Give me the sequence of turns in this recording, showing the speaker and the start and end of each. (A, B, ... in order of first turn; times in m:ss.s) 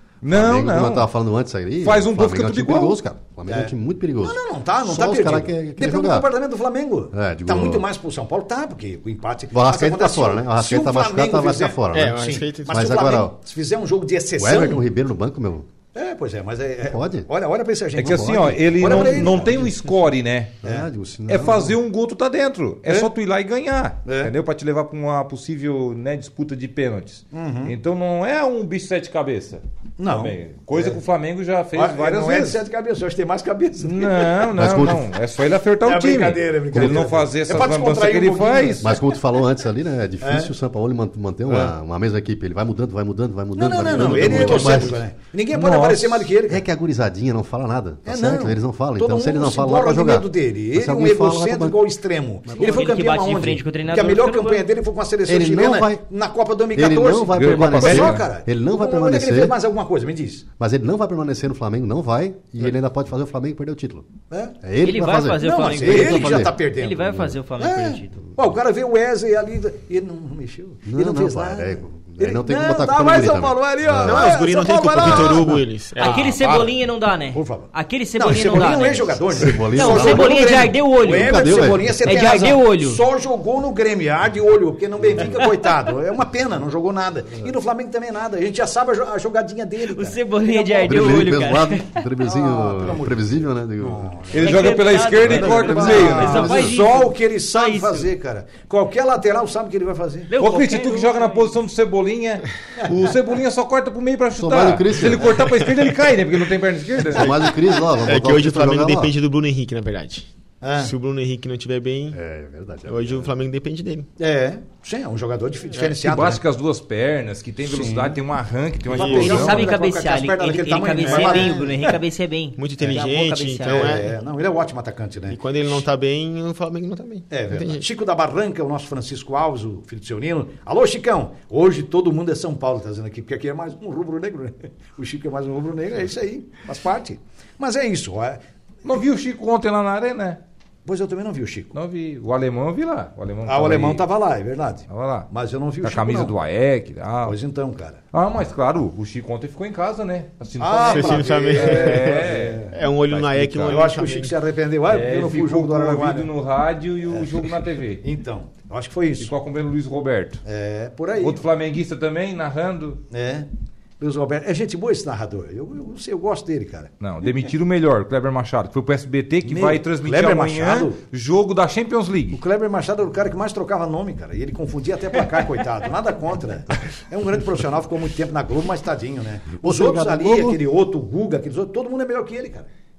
0:00.2-0:01.1 A
0:00.3-0:06.3 B
0:01.8-0:03.0 A
0:03.5-0:14.8 C
0:07.1-0:07.9 B
0:09.5-0:13.4 B
0:11.9-0:13.0 D
0:14.4-0:15.7 B
0:15.9-0:19.7 C
0:16.8-0:17.3 B
0:18.0-0:19.7 B
0:18.0-0:20.6 A
0:20.6-0:21.8 B
0:21.3-0:32.6 A
0:24.1-0:24.3 C
0:27.3-0:27.8 C
0:30.0-0:31.0 C
0:31.8-0:34.5 C
0:33.8-0:39.0 A
0:34.6-0:35.1 B
0:35.8-0:39.1 C
0:38.8-0:45.0 B
0:40.2-0:40.5 C
0:41.5-0:41.7 C
0:43.6-0:46.6 C
0:44.1-0:44.8 A
0:45.5-0:46.3 A
0:46.5-0:51.8 B
0:48.1-1:00.5 C
0:52.5-0:52.8 B
0:52.5-0:54.7 E
0:55.3-0:56.0 B
0:56.7-0:59.6 B
0:57.3-0:58.3 A
1:00.6-1:04.1 B
1:04.3-1:04.6 C
1:04.6-1:06.6 B
1:04.8-1:08.3 E
1:05.4-1:16.8 C
1:10.9-1:14.4 B
1:14.0-1:16.3 D
1:15.0-1:15.4 B
1:16.0-1:23.0 E
1:17.3-1:31.3 C
1:19.4-1:22.0 B
1:29.9-1:32.0 E
1:30.8-1:34.3 B
1:32.2-1:33.3 C
1:33.8-1:34.6 C
1:34.3-1:36.8 A
1:34.3-1:38.1 E
1:35.2-1:36.5 B
1:35.3-1:40.3 C
1:40.3-1:41.5 E
1:40.4-1:47.3 A
1:44.4-1:45.5 B
1:47.0-1:49.1 B
1:47.5-1:52.2 D
1:50.6-1:50.9 C
1:52.1-1:53.3 B
1:52.9-1:54.1 D
1:54.2-1:56.4 C
1:55.8-1:59.7 A
1:57.6-1:58.2 C
1:58.9-2:02.0 C
1:58.9-1:59.6 D
1:59.1-2:04.1 E
2:01.0-2:01.4 D
2:02.6-2:04.1 D
2:03.6-2:05.8 C
2:05.3-2:07.8 D
2:07.3-2:18.4 C
2:18.8-2:20.4 A
2:20.8-2:21.8 C
2:21.7-2:24.0 A
2:23.5-2:26.3 C
2:24.9-2:25.3 A
2:25.8-2:27.4 A
2:27.2-2:28.0 C
2:28.1-2:33.8 A
2:30.6-2:32.8 C
2:30.9-2:34.4 D
2:33.7-2:36.3 C
2:34.9-2:38.0 A
2:37.1-2:37.5 C
2:38.0-2:39.3 C
2:39.2-2:40.4 A
2:40.4-2:41.4 C
2:41.2-2:43.0 A
2:43.1-2:43.5 C
2:44.0-2:47.5 C
2:47.0-2:52.4 A
2:49.4-2:51.0 C
2:52.3-3:02.7 C
2:59.6-3:00.6 B